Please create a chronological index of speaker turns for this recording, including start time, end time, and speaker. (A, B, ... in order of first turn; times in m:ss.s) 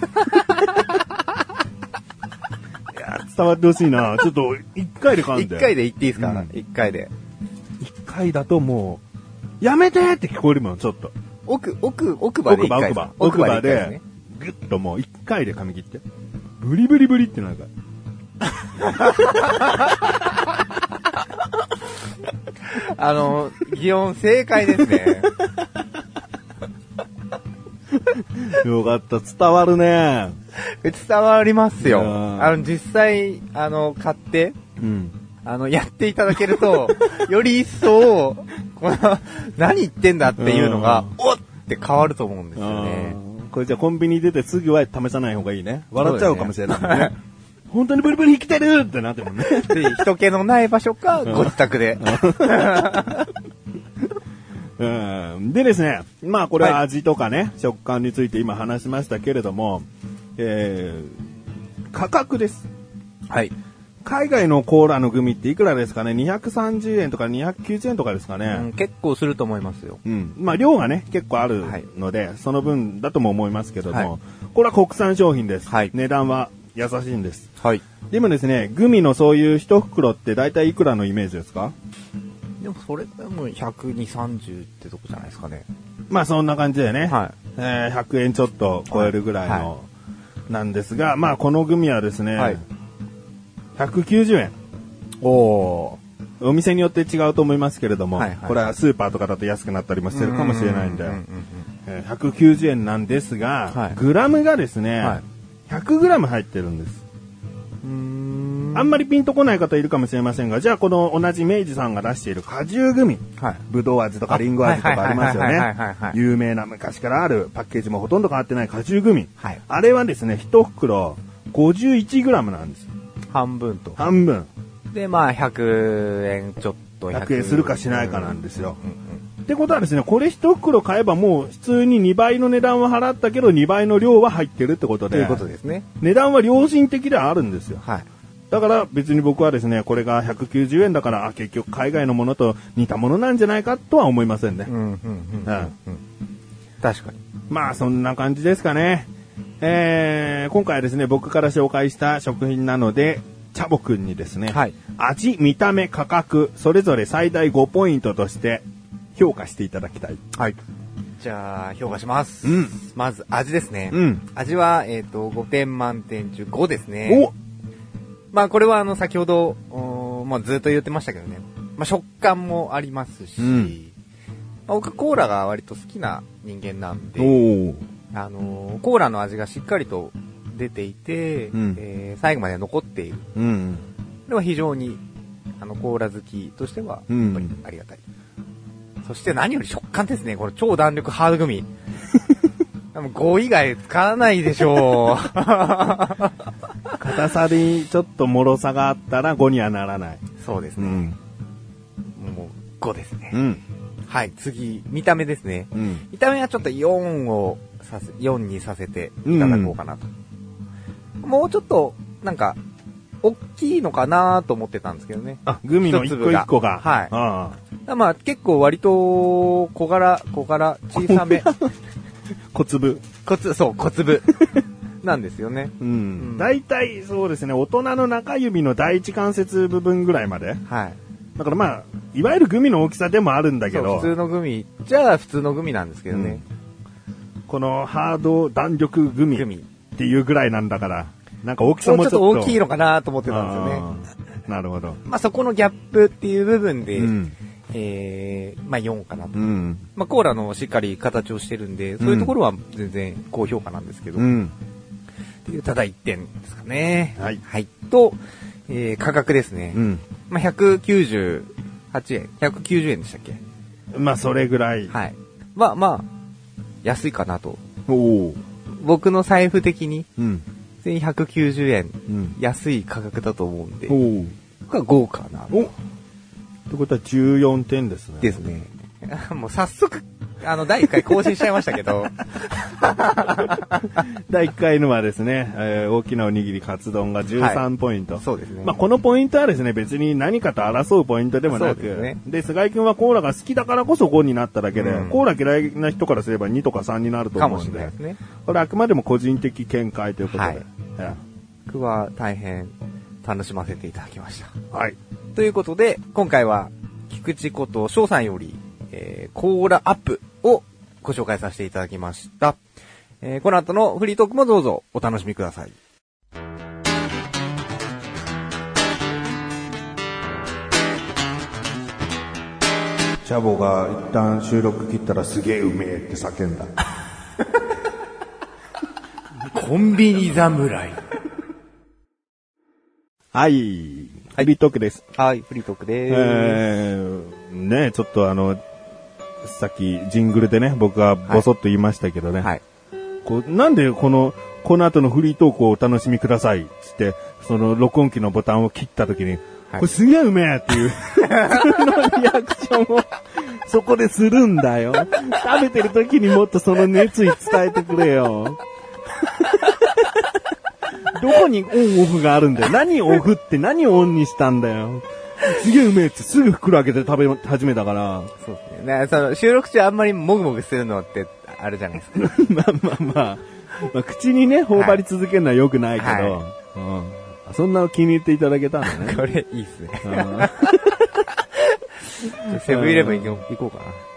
0:02.9-0:06.5 A
0:05.3-0:07.1 B
0:07.8-0:09.0 A
0:09.6-0:11.1 A
0:11.4-0:14.0 B
0:12.4-0:16.0 A
0:16.6-0:17.7 A
0:18.8-0:19.9 B
0:22.6-0:25.3 B
0:27.9-0:30.4 A
0:30.6-0:34.6 B
0:31.8-0:32.6 A
0:34.8-0:35.2 A
0:35.4-0:43.2 B
0:40.4-0:41.1 A
0:42.6-0:47.1 A
0:46.0-0:47.1 B
0:47.7-0:50.0 A
0:49.5-0:53.3 B
0:51.2-0:53.2 A
0:54.8-0:59.9 A
1:00.4-1:01.2 A
1:01.9-1:02.7 A
1:04.0-1:08.7 A
1:08.5-1:10.0 B
1:10.0-1:17.5 A
1:15.7-1:15.9 B
1:18.1-1:21.8 A
1:22.6-1:25.6 B
1:26.1-1:29.9 A
1:27.0-1:27.3 B
1:28.9-1:29.7 B
1:30.5-1:32.6 A
1:33.8-1:34.5 A
1:35.2-1:36.0 B
1:36.4-1:41.2 A
1:38.1-1:38.8 B
1:40.1-1:41.6 B
1:41.9-1:47.0 A
1:43.7-1:44.0 B
1:47.8-1:49.0 B
1:48.7-2:02.9 A
1:54.3-1:56.2 B
2:03.3-2:04.1 B
2:04.0-2:04.5 A
2:04.9-2:09.2 B
2:07.1-2:08.8 A
2:09.4-2:15.4 A
2:15.1-2:15.9 B
2:16.0-2:17.8 A
2:18.5-2:24.7 A
2:24.7-2:26.0 B
2:25.4-2:25.7 A
2:26.8-2:27.2 B
2:27.5-2:29.1 A
2:29.6-2:38.6 A
2:34.5-2:34.8 B
2:39.2-2:40.2 A
2:41.2-2:47.3 B
2:42.4-2:42.8 A
2:43.9-2:44.2 A
2:47.0-2:47.3 A
2:48.3-2:53.9 B
2:53.4-2:53.8 A
2:54.7-2:57.4 B
2:57.2-2:57.8 A
2:58.1-3:03.3 B
3:01.5-3:01.8 A
3:03.3-3:03.8 A
3:04.3-3:05.0 B
3:05.6-3:08.0 B
3:07.1-3:07.5 A
3:09.0-3:11.7 B
3:12.9-3:16.4 B
3:17.0-3:20.2 A
3:20.4-3:21.1 B
3:20.8-3:21.2 A
3:22.2-3:23.4 B
3:23.3-3:23.6 A
3:24.1-3:30.1 B
3:25.7-3:26.0 A
3:29.2-3:29.8 A
3:31.2-3:32.6 B
3:33.2-3:37.1 B
3:35.4-3:37.6 A
3:37.9-3:41.5 B
3:40.9-3:41.7 A
3:42.5-3:43.0 A
3:43.2-3:44.4 B
3:45.0-3:46.5 B
3:45.8-3:50.6 A
3:50.6-3:51.0 B
3:51.4-3:54.1 A
3:53.7-3:56.4 B
3:56.1-3:56.4 A
3:57.5-4:02.6 A
3:59.3-3:59.7 B
4:01.8-4:03.9 B
4:03.2-4:05.0 A
4:05.0-4:07.2 B
4:07.0-4:07.3 A
4:07.7-4:09.4 B
4:09.3-4:09.8 A
4:09.9-4:14.3 B
4:12.0-4:12.3 A
4:14.2-4:14.5 A
4:15.4-4:23.4 B
4:19.7-4:20.0 A
4:23.9-4:24.9 A
4:24.9-4:26.1 B
4:26.8-4:27.6 B
4:27.9-4:28.4 A
4:28.7-4:30.1 B
4:30.2-4:30.4 A
4:30.8-4:34.0 B
4:32.1-4:32.4 A
4:33.9-4:34.3 A
4:34.7-4:35.7 B
4:36.7-4:38.4 A
4:38.2-4:44.0 B
4:44.0-5:01.2 A
4:47.4-4:47.6 B
4:48.2-4:48.8 B
4:51.5-4:52.2 B
4:54.7-4:55.2 B
4:57.4-4:58.2 B
5:00.2-5:00.6 B
5:01.7-5:04.5 B
5:04.7-5:05.0 A
5:05.3-5:12.6 B
5:13.2-5:15.8 B
5:23.2-5:26.7 A
5:29.5-5:31.0 B
5:33.3-5:35.0 A
5:35.1-5:36.6 B
5:36.1-5:38.6 A
5:39.4-5:42.5 A
5:43.2-5:58.6 A
5:51.3-5:51.7 B
5:59.2-6:00.4 A
6:01.1-6:08.3 A
6:08.4-6:12.3 B
6:12.1-6:19.2 A
6:14.7-6:15.0 B
6:16.0-6:16.4 B
6:18.8-6:24.0 B
6:20.0-6:21.1 A
6:22.5-6:23.4 A